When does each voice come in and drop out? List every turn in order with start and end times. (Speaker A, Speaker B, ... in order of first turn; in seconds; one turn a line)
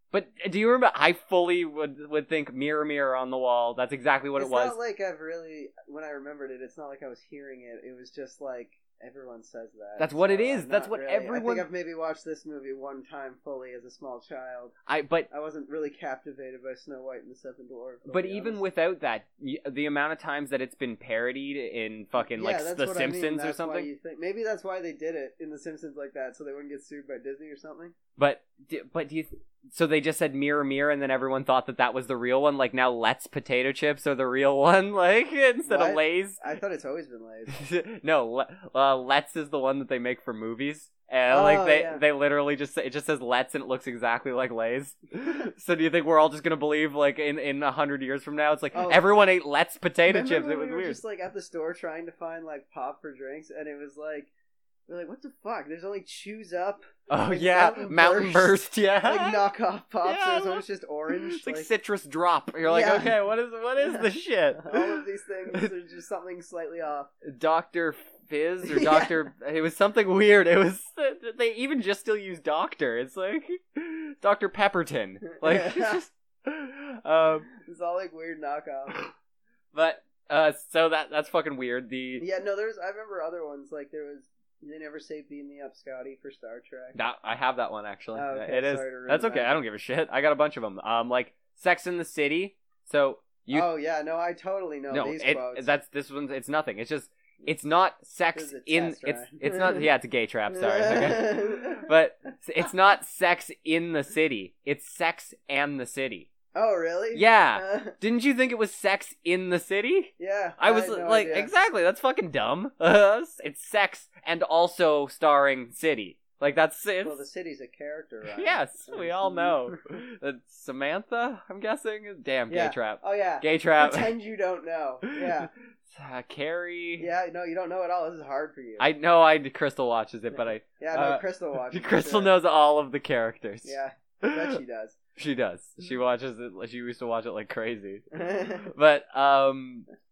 Speaker A: 0.1-4.8
Speaker B: 4.4-14.7
Speaker A: 10.0-11.7
Speaker A: 14.9-15.3
Speaker B: 15.3-18.6
Speaker A: 18.1-23.9
Speaker B: 22.2-28.0
Speaker A: 28.2-36.4
Speaker B: 35.6-37.6
Speaker A: 37.5-51.0
Speaker B: 41.3-42.0
Speaker B: 48.7-49.1
Speaker B: 50.1-54.3
Speaker B: 54.9-61.7
Speaker A: 57.1-59.4
Speaker A: 60.0-65.0
Speaker B: 62.6-63.2
Speaker B: 63.8-67.1
Speaker A: 67.2-77.5
Speaker B: 68.7-69.1
Speaker B: 75.4-76.0
Speaker B: 77.5-79.1
Speaker A: 79.7-82.2
Speaker B: 82.2-87.0
Speaker A: 87.0-93.7
Speaker B: 88.2-89.6
Speaker B: 93.5-95.7
Speaker A: 94.9-106.3
Speaker B: 98.3-99.9
Speaker B: 100.5-101.9
Speaker B: 106.5-108.0
Speaker A: 107.1-117.2
Speaker B: 110.2-111.5
Speaker B: 117.0-119.8
Speaker A: 118.3-124.1
Speaker B: 122.5-125.5
Speaker A: 125.1-127.1
Speaker B: 127.0-128.9
Speaker A: 128.8-134.5
Speaker B: 130.4-132.3
Speaker B: 133.6-135.0
Speaker A: 135.2-139.9
Speaker B: 138.1-138.7